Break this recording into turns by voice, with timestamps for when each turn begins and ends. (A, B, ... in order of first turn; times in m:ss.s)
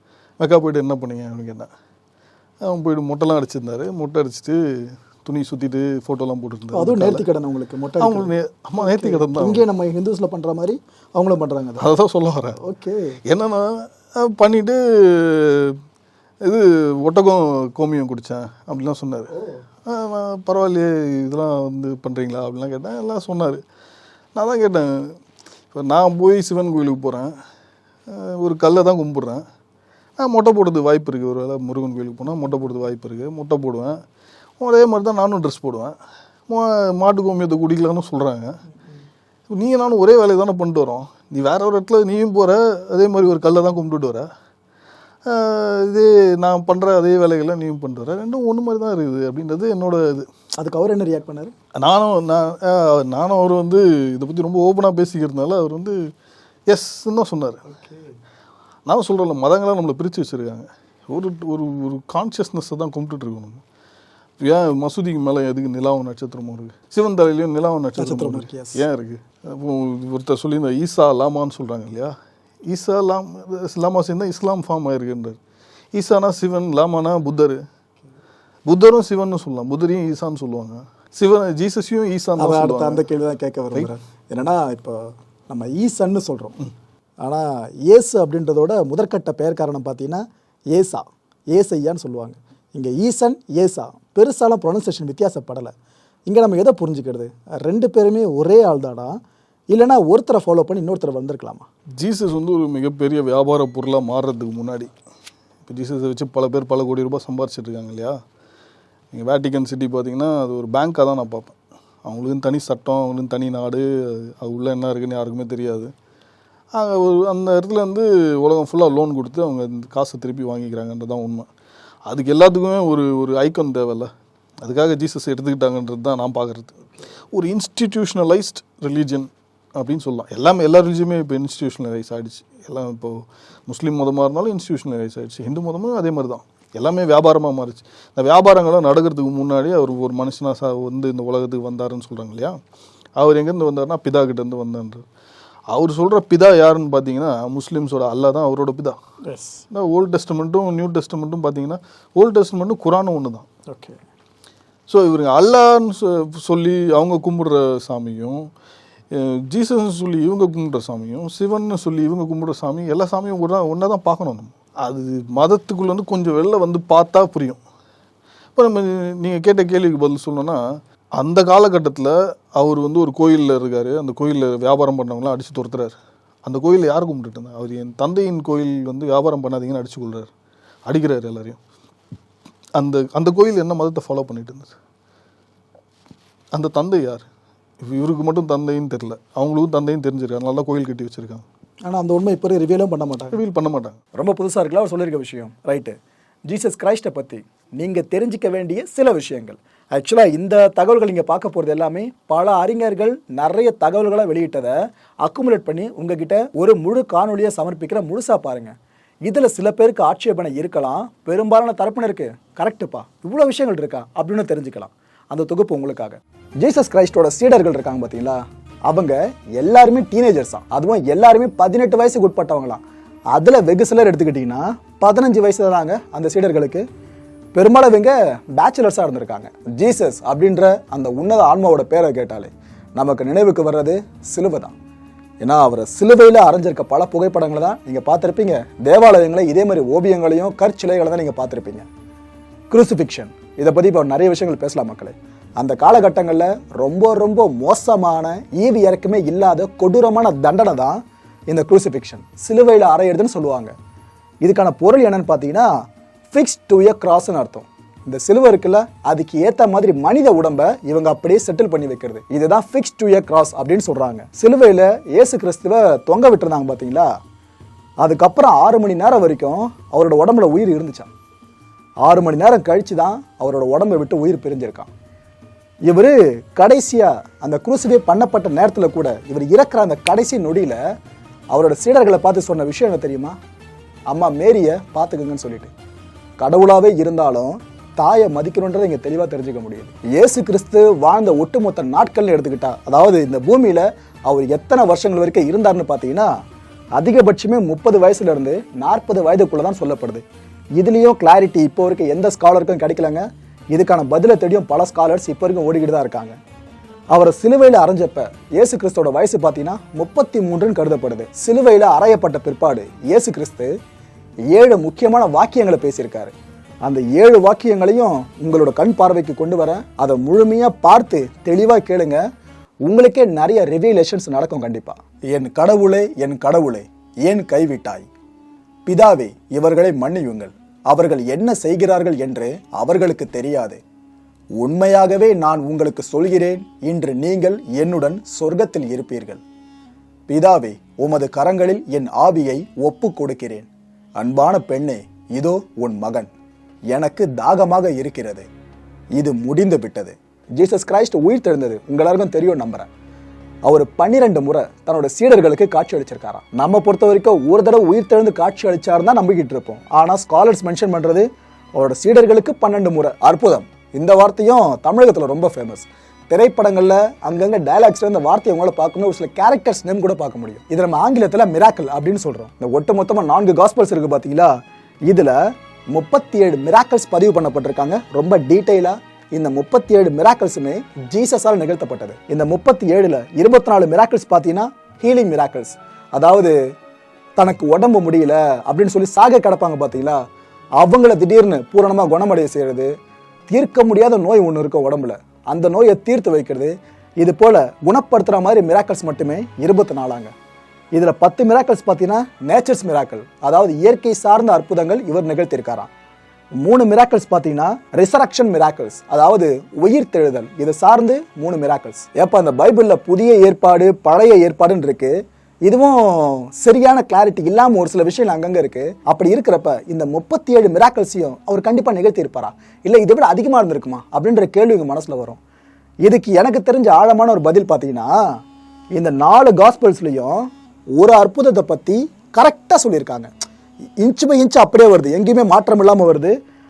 0:00.4-0:01.7 A
0:02.7-0:07.2 A
0:06.7-0:11.9 B
0:08.0-0:09.6 A
0:11.8-0:12.6 A
0:12.6-0:13.2 B
0:13.3-0:15.8 A
0:16.4-0:19.3 A
0:19.9-0:23.6 A
0:24.4-0:25.2 A
0:25.7-0:27.3 A
0:28.1-0:29.4 A
0:30.2-0:34.0 A
0:34.6-0:36.0 A
0:36.5-0:38.5 A
0:39.5-0:44.3 A
0:45.2-0:50.3 A
0:50.6-0:51.5 B
0:51.8-0:56.0 A
0:56.7-0:57.7 A
0:58.9-1:03.6 A
1:04.4-1:12.1 A
1:08.0-1:08.8 B
1:12.7-1:15.4 A
1:16.0-1:17.6 A
1:18.7-1:23.0 A
1:22.4-1:26.6 B
1:27.2-1:35.7 B
1:36.3-1:39.2 B
1:39.7-1:41.7 B
1:42.0-1:44.9 A
1:45.7-1:48.2 A
1:49.1-1:55.9 A
1:56.8-2:01.5 A
2:02.1-2:04.1 A
2:04.6-2:06.8 A
2:07.3-2:22.6 A
2:23.2-2:25.0 A
2:25.7-2:29.0 A
2:29.3-2:29.6 B
2:29.7-2:33.5 A
2:33.7-2:34.0 B
2:34.9-2:38.5 A
2:39.1-2:47.6 A
2:48.6-2:50.6 A
2:51.2-3:00.3 A
3:00.9-3:01.6 A
3:02.8-3:04.7 A
3:06.5-3:07.2 A
3:07.8-3:11.4 A
3:11.9-3:13.4 B
3:13.3-3:14.0 A
3:14.1-3:16.0 B
3:16.5-3:28.8 B
3:29.3-3:42.8 B
3:43.3-3:46.8 B
3:47.5-3:54.8 B
3:55.4-4:01.9 B
4:02.7-4:13.7 B
4:14.4-4:15.7 B
4:16.3-4:27.1 B
4:28.0-4:31.1 B
4:32.0-4:34.9 B
4:35.9-4:40.8 B
4:41.5-4:43.4 B
4:44.1-4:45.7 B
4:46.4-4:56.3 B
4:57.0-5:00.2 B
5:00.8-5:06.4 B
5:07.1-5:13.7 B
5:14.5-5:16.3 B
5:16.8-5:22.2 B
5:22.9-5:28.1 B
5:28.9-5:33.8 B
5:34.6-5:39.4 B
5:40.3-5:46.3 B
5:46.9-5:48.5 B
5:49.2-5:52.9 B
5:53.7-6:14.5 B
6:15.1-6:15.4 B
6:15.9-6:26.6 B
6:27.4-6:30.2 B
6:30.8-6:32.9 B
6:33.5-6:40.3 B
6:40.9-6:45.9 B
6:46.6-6:55.1 B
6:55.7-7:05.4 B
7:06.1-7:08.2 B
7:09.0-7:13.3 B
7:14.0-7:16.4 B